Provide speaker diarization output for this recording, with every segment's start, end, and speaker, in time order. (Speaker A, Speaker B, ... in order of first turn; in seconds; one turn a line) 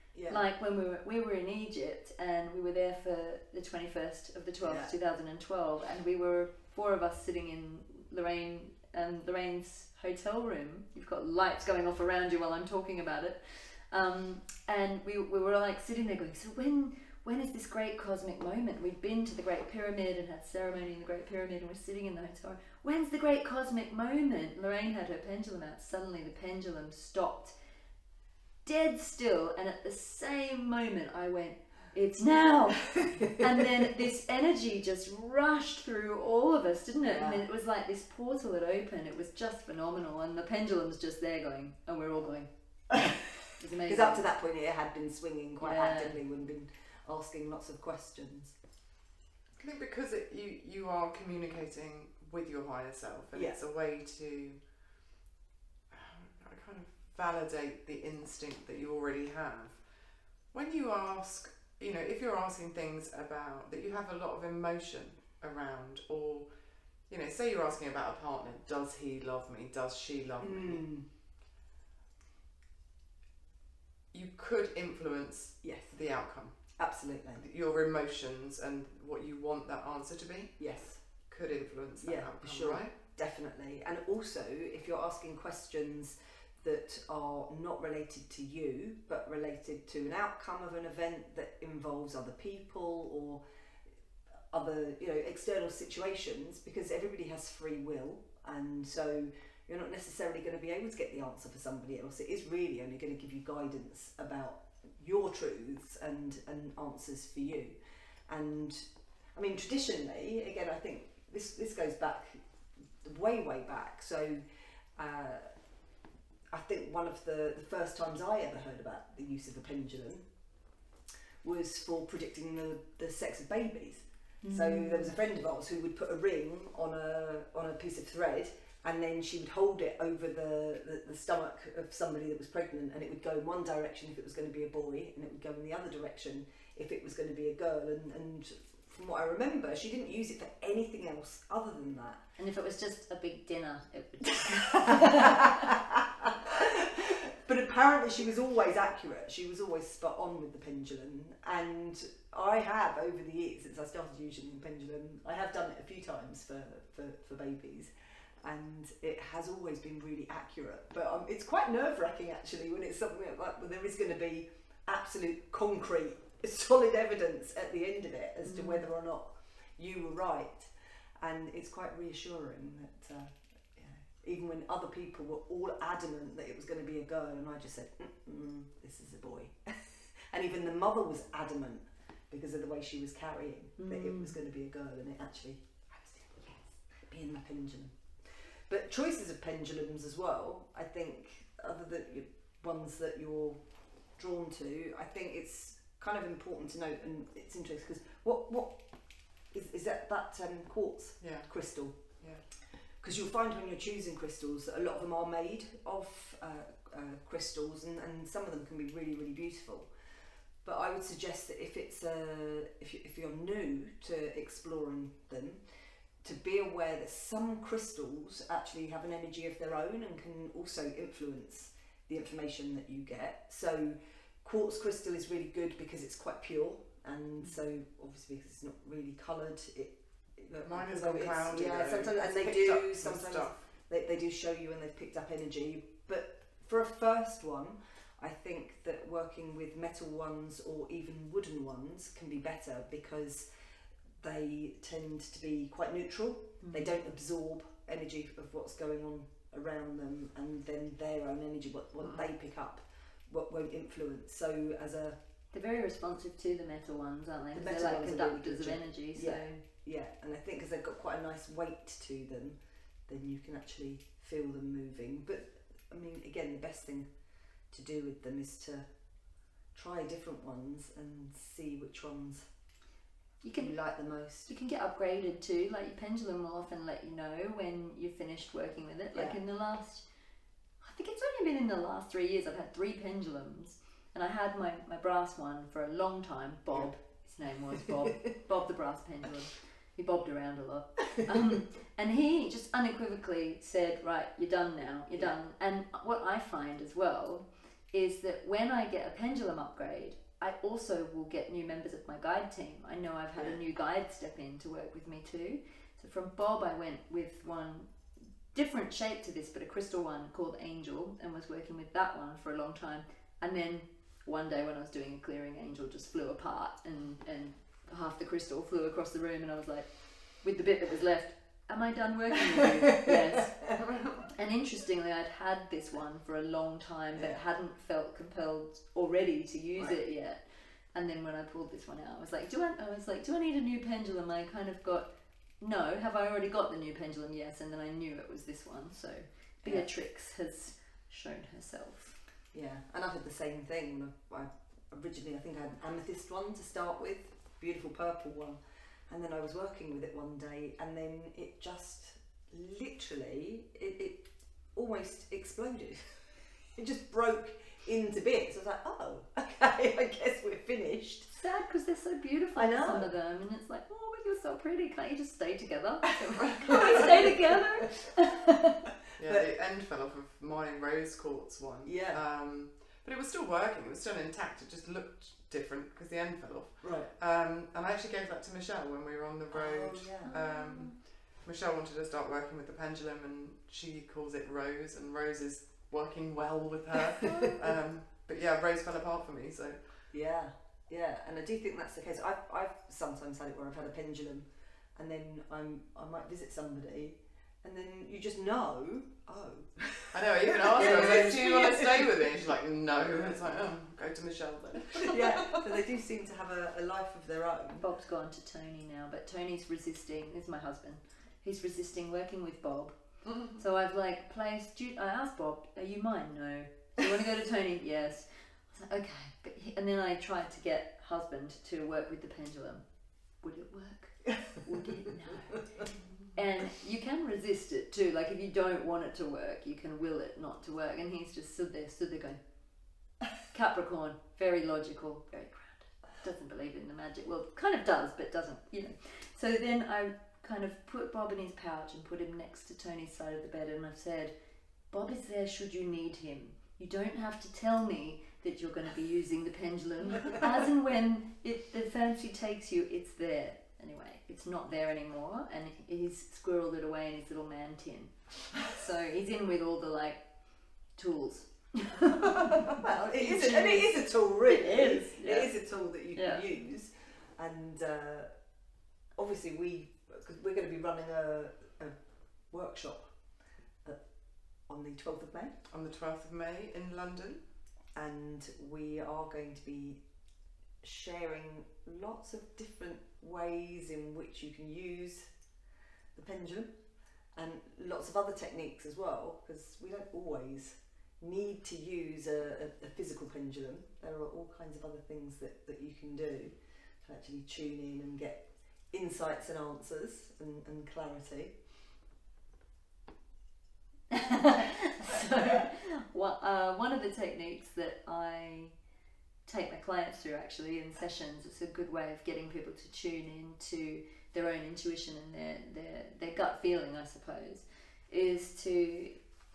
Speaker A: 0.1-0.4
Speaker B: 0.3-27.6
Speaker A: 4.6-4.9
Speaker B: 28.6-42.5
Speaker A: 37.0-37.5
Speaker B: 43.6-44.3
Speaker A: 43.9-48.6
Speaker B: 45.6-46.2
Speaker C: 49.6-54.8
Speaker A: 53.3-53.6
Speaker C: 55.9-70.9
Speaker A: 70.4-71.1
Speaker C: 74.1-82.9
Speaker A: 75.6-76.0
Speaker A: 76.7-77.5
Speaker A: 80.6-81.3
Speaker A: 82.0-93.4
Speaker A: 94.5-112.4
Speaker A: 113.0-114.4
Speaker A: 115.0-115.5
Speaker A: 116.5-120.3
Speaker A: 121.4-142.3
Speaker B: 124.4-125.1
Speaker B: 142.4-145.6
Speaker A: 144.8-193.6
Speaker B: 168.4-168.9
Speaker B: 183.8-184.4
Speaker A: 194.2-199.0
Speaker A: 199.5-202.0
Speaker C: 201.2-202.4
Speaker A: 203.0-209.9
Speaker A: 210.6-215.6
Speaker A: 216.2-243.7
Speaker C: 230.6-233.7
Speaker A: 244.2-255.2
Speaker B: 246.6-246.9
Speaker B: 255.5-259.6
Speaker A: 257.5-267.1
Speaker A: 267.7-268.9
Speaker A: 269.7-272.5
Speaker B: 273.4-273.8
Speaker A: 273.5-274.5
Speaker B: 274.5-280.1
Speaker B: 280.8-307.9
Speaker B: 308.5-342.2
Speaker A: 327.1-327.4
Speaker A: 339.6-339.9
Speaker A: 342.5-361.3
Speaker B: 361.3-368.8
Speaker A: 362.6-363.1
Speaker A: 366.7-367.6
Speaker C: 369.2-390.0
Speaker A: 369.2-369.5
Speaker A: 371.9-372.2
Speaker A: 376.8-377.1
Speaker A: 379.5-380.4
Speaker B: 380.2-380.9
Speaker B: 387.3-387.5
Speaker A: 390.1-402.3
Speaker C: 400.1-405.7
Speaker A: 405.0-407.9
Speaker B: 407.8-422.9
Speaker B: 423.4-432.4
Speaker B: 433.4-444.3
Speaker B: 444.9-465.6
Speaker A: 462.7-468.3
Speaker B: 466.1-466.4
Speaker A: 469.2-473.1
Speaker A: 474.6-475.6
Speaker C: 475.7-477.4
Speaker A: 477.9-480.0
Speaker A: 480.8-485.3
Speaker A: 486.1-486.7
Speaker A: 487.4-501.6
Speaker B: 504.1-508.7
Speaker B: 509.5-519.2